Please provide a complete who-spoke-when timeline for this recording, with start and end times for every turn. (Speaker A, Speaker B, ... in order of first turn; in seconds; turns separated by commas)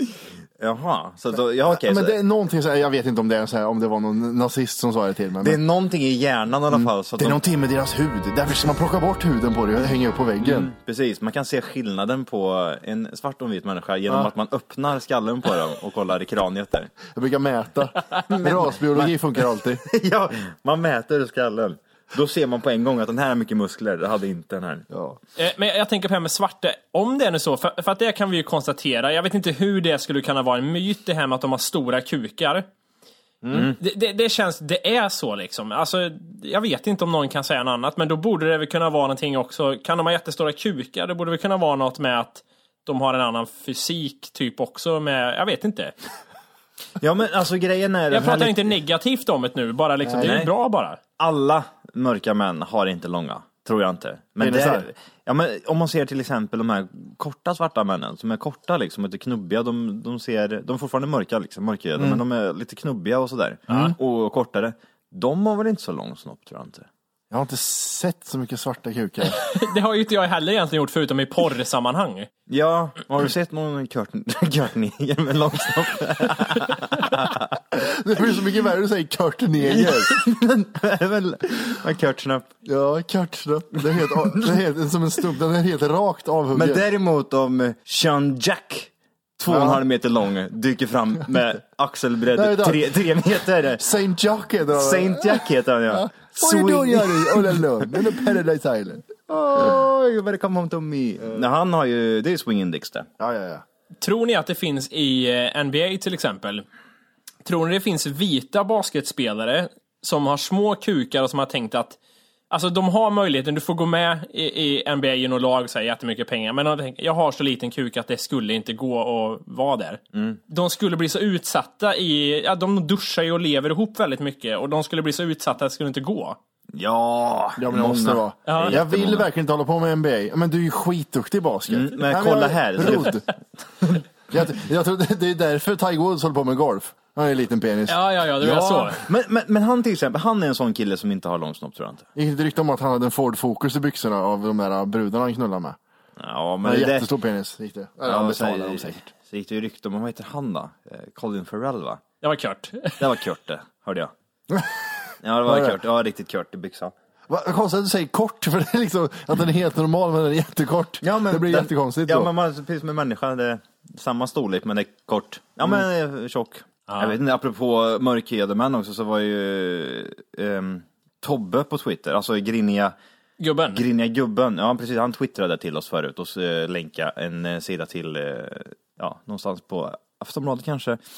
Speaker A: 0.6-2.1, Speaker B: 1.7-5.6, Speaker A: 5.4-7.4, Speaker B: 6.7-10.7, Speaker A: 10.4-17.0, Speaker B: 17.1-19.8, Speaker A: 18.3-19.1, Speaker A: 19.8-24.9, Speaker B: 24.9-25.2, Speaker C: 25.4-32.7, Speaker B: 33.4-33.7, Speaker C: 33.6-45.9, Speaker A: 47.0-48.7, Speaker C: 48.1-51.0, Speaker B: 50.0-50.3, Speaker A: 50.2-50.5, Speaker A: 51.2-66.9, Speaker B: 54.4-54.9, Speaker B: 62.0-62.2, Speaker B: 63.7-63.9, Speaker B: 67.3-69.4, Speaker C: 69.3-72.3, Speaker A: 72.5-77.6, Speaker B: 77.7-80.2, Speaker A: 79.7-82.5, Speaker B: 82.6-86.8, Speaker A: 83.9-84.6, Speaker A: 86.5-93.8, Speaker B: 89.5-89.8, Speaker B: 92.3-92.9, Speaker B: 93.8-99.8, Speaker A: 94.7-97.7, Speaker A: 99.5-103.1, Speaker B: 103.2-103.6, Speaker C: 104.0-106.6, Speaker C: 107.4-112.0, Speaker C: 112.5-126.4, Speaker A: 120.1-120.4, Speaker A: 126.7-129.3, Speaker B: 127.6-133.2, Speaker C: 128.5-128.7, Speaker A: 131.7-133.3, Speaker B: 134.3-138.0, Speaker C: 137.9-139.0, Speaker A: 138.4-142.1, Speaker B: 142.1-145.8, Speaker A: 146.2-147.1, Speaker B: 146.6-149.0, Speaker A: 148.0-152.0, Speaker C: 152.2-153.0, Speaker A: 153.0-154.1, Speaker B: 154.5-154.8, Speaker A: 155.2-156.9, Speaker B: 155.4-155.8, Speaker B: 157.3-162.3, Speaker A: 161.0-172.9, Speaker C: 166.9-167.2, Speaker C: 173.4-173.8, Speaker A: 173.7-181.0